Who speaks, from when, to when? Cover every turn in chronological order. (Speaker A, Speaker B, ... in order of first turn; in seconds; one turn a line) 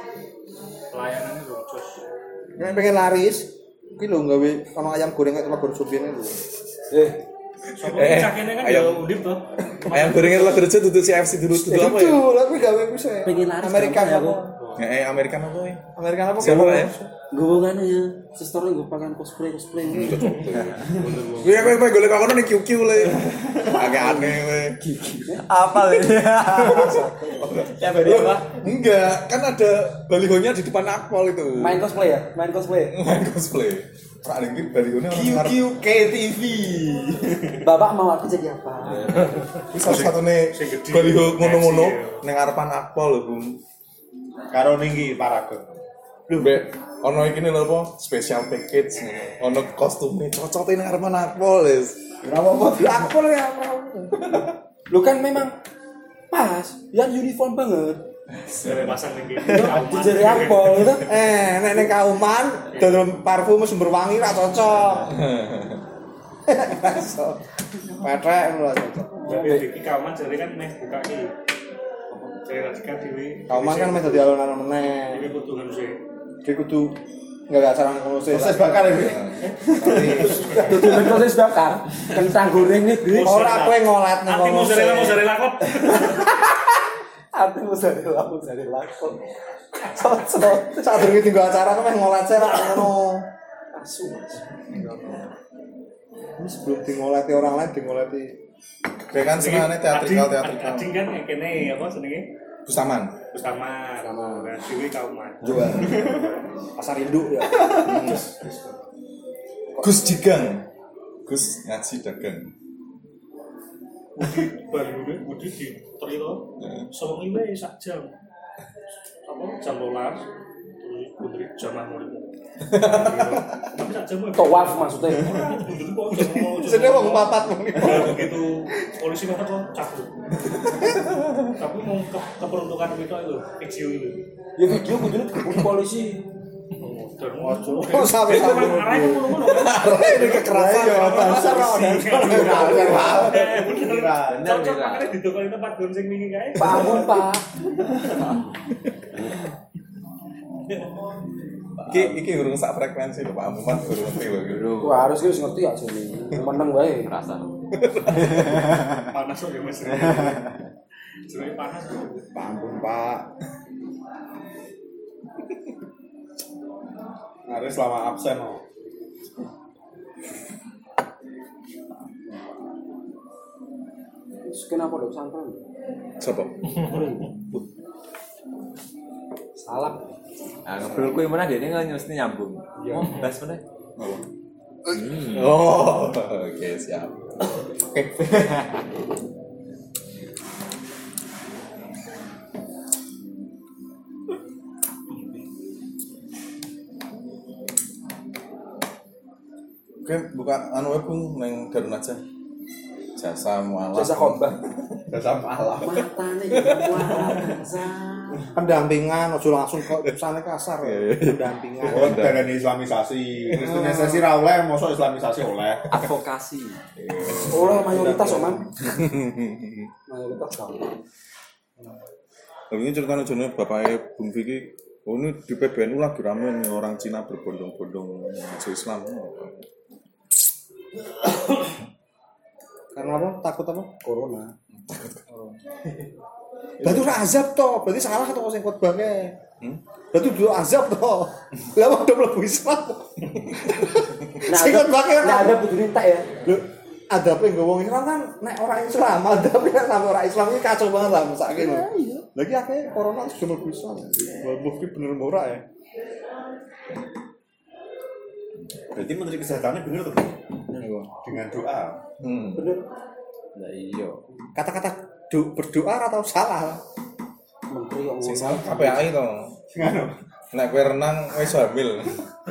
Speaker A: 0.9-2.0
Speaker B: 2.6-6.4
Speaker C: 2.6-2.9
Speaker D: 6.9-7.2
Speaker A: 7.8-10.7
Speaker C: 7.8-9.1
Speaker C: 9.8-12.2
Speaker B: 11.5-14.6
Speaker D: 13.2-14.4
Speaker A: 14.6-14.9
Speaker C: 14.8-15.8
Speaker B: 16.0-17.1
Speaker C: 16.4-16.9
Speaker D: 17.3-20.3
Speaker C: 19.9-24.8
Speaker A: 20.8-21.8
Speaker E: 25.0-27.1
Speaker D: 25.2-25.5
Speaker C: 26.6-31.9
Speaker D: 27.0-28.4
Speaker E: 27.9-28.3
Speaker D: 31.6-33.0
Speaker C: 32.9-35.6
Speaker F: 35.1-37.6
Speaker D: 37.6-39.3
Speaker E: 39.0-39.4
Speaker C: 39.7-43.6
Speaker A: 39.8-42.2
Speaker F: 44.5-45.6
Speaker C: 46.4-52.0
Speaker F: 52.2-53.0
Speaker B: 52.6-54.1
Speaker D: 54.9-55.5
Speaker D: 56.3-58.0
Speaker C: 58.5-58.9
Speaker A: 58.6-61.0
Speaker D: 59.5-61.1
Speaker B: 61.0-65.2
Speaker A: 62.7-63.0
Speaker C: 65.1-65.8
Speaker B: 66.5-69.3
Speaker D: 69.2-69.7
Speaker A: 69.3-71.3
Speaker A: 72.5-74.3
Speaker B: 73.5-75.3
Speaker A: 75.1-76.0
Speaker B: 76.4-79.1
Speaker F: 78.3-80.4
Speaker C: 78.9-80.0
Speaker A: 79.4-81.0
Speaker B: 79.8-80.7
Speaker D: 80.6-83.4
Speaker A: 83.0-86.2
Speaker B: 83.2-85.3
Speaker D: 87.3-89.2
Speaker D: 89.8-91.2
Speaker B: 90.6-93.3
Speaker D: 93.7-94.5
Speaker B: 96.4-98.4
Speaker C: 99.1-100.9
Speaker A: 99.2-102.3
Speaker C: 102.7-103.2
Speaker A: 103.3-106.2
Speaker B: 104.1-104.4
Speaker B: 105.4-106.0
Speaker F: 105.5-106.3
Speaker B: 106.8-108.0
Speaker F: 107.6-107.9
Speaker C: 107.8-108.3
Speaker C: 109.8-110.7
Speaker C: 111.2-112.5
Speaker A: 114.2-118.1
Speaker A: 119.3-120.2
Speaker A: 120.8-130.1
Speaker C: 122.7-123.4
Speaker D: 124.4-125.5
Speaker B: 126.1-128.5
Speaker A: 131.5-134.2
Speaker D: 134.6-136.2
Speaker A: 136.8-147.2
Speaker B: 137.4-143.5
Speaker F: 142.3-144.5
Speaker E: 144.2-145.2
Speaker D: 146.6-147.5
Speaker E: 151.8-152.2
Speaker C: 151.9-154.8
Speaker E: 154.5-155.2
Speaker D: 154.8-157.1
Speaker E: 157.0-159.0
Speaker C: 157.8-158.7
Speaker A: 159.1-160.4
Speaker E: 160.1-160.5
Speaker A: 161.3-162.3
Speaker B: 162.3-163.3
Speaker F: 167.5-168.6
Speaker D: 174.4-175.6
Speaker C: 176.2-177.6
Speaker D: 176.9-177.2
Speaker D: 179.6-180.0
Speaker E: 180.7-183.6
Speaker D: 182.8-183.1
Speaker E: 184.9-185.6
Speaker C: 184.9-187.1
Speaker C: 200.0-202.2
Speaker C: 203.2-204.5
Speaker D: 203.9-204.6
Speaker F: 205.1-206.0
Speaker D: 205.8-208.4
Speaker B: 208.6-212.2
Speaker C: 210.8-212.5
Speaker F: 211.8-215.9
Speaker B: 213.6-214.2
Speaker E: 215.9-216.8
Speaker F: 217.0-218.7
Speaker D: 217.5-218.6
Speaker C: 218.8-219.9
Speaker D: 220.1-220.9
Speaker C: 222.7-229.7
Speaker B: 232.9-233.9
Speaker D: 234.0-234.5
Speaker C: 234.8-235.6
Speaker B: 236.8-239.4
Speaker B: 240.1-245.6
Speaker C: 243.4-243.7
Speaker D: 244.5-246.3
Speaker B: 246.4-255.6
Speaker D: 251.5-252.2
Speaker F: 258.9-260.4
Speaker C: 260.8-261.1
Speaker F: 261.2-262.0
Speaker C: 262.2-262.7
Speaker D: 262.6-262.8
Speaker E: 263.6-264.2
Speaker B: 264.6-266.8
Speaker D: 267.7-269.1
Speaker C: 268.2-269.6
Speaker F: 269.7-270.2
Speaker C: 270.5-272.2